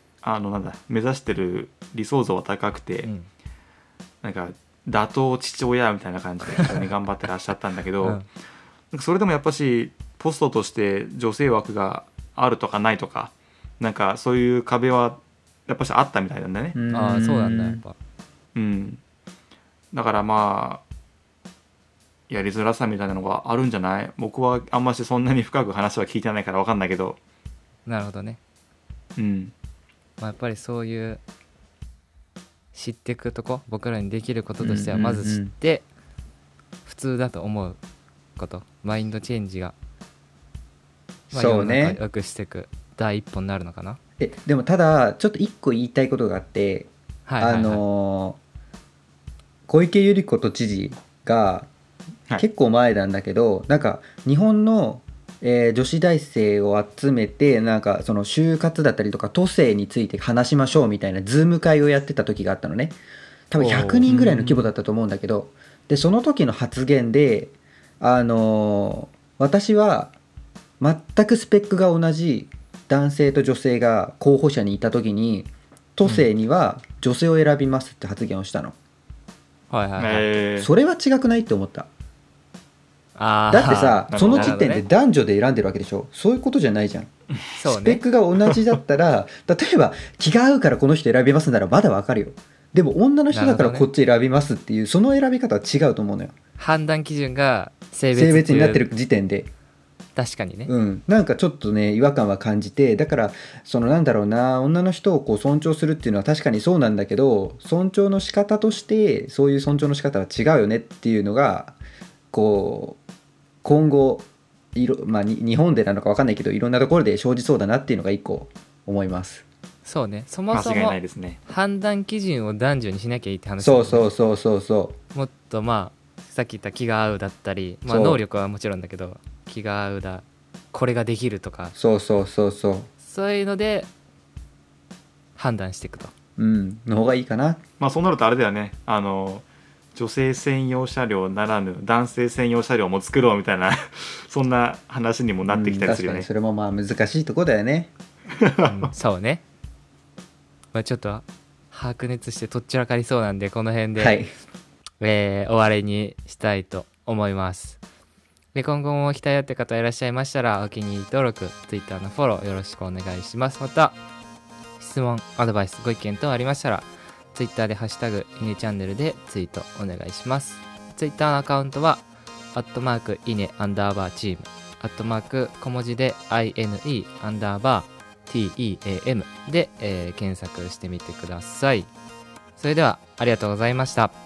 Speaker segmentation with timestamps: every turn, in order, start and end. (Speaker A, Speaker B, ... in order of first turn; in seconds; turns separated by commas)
Speaker A: 0.2-3.1, Speaker B: 3.0-3.3, Speaker A: 4.2-8.2, Speaker B: 8.0-8.3, Speaker A: 8.9-16.8, Speaker C: 16.7-17.8, Speaker B: 16.9-17.9, Speaker A: 18.5-19.0, Speaker A: 19.9-20.8, Speaker A: 22.3-27.2, Speaker B: 27.9-28.4, Speaker A: 29.2-29.5, Speaker B: 30.2-31.2, Speaker B: 32.7-35.9, Speaker C: 34.6-35.5, Speaker B: 36.8-37.8, Speaker B: 38.4-39.7, Speaker C: 41.3-42.0, Speaker B: 41.3-44.0, Speaker C: 44.2-48.4, Speaker B: 47.2-47.8, Speaker C: 49.7-51.7, Speaker C: 52.4-63.0, Speaker C: 63.5-70.1, Speaker B: 63.6-64.7, Speaker A: 64.1-64.3, Speaker C: 70.8-78.7, Speaker B: 76.0-76.3, Speaker B: 79.7-80.3, Speaker A: 80.0-80.7, Speaker C: 80.6-81.9, Speaker B: 83.2-84.8, Speaker C: 83.5-87.1, Speaker A: 84.1-84.5, Speaker B: 87.6-88.0, Speaker C: 87.6-96.3, Speaker B: 93.3-93.9, Speaker B: 96.6-98.9, Speaker C: 98.1-99.5, Speaker B: 100.2-100.7, Speaker C: 100.7-111.8, Speaker C: 112.3-113.0, Speaker C: 113.6-119.4, Speaker B: 119.8-124.1, Speaker A: 120.5-121.4, Speaker C: 123.6-124.9, Speaker B: 125.1-131.7, Speaker C: 127.9-128.2, Speaker C: 131.7-132.9, Speaker B: 133.0-133.9, Speaker B: 135.3-136.1, Speaker C: 136.4-137.6, Speaker A: 137.8-139.4, Speaker A: 139.9-146.3, Speaker C: 145.4-147.9, Speaker A: 148.4-148.9, Speaker B: 148.6-149.4, Speaker B: 150.7-154.2, Speaker C: 153.9-154.3, Speaker B: 155.0-157.8, Speaker B: 158.5-164.0, Speaker B: 164.8-181.9, Speaker B: 182.6-184.1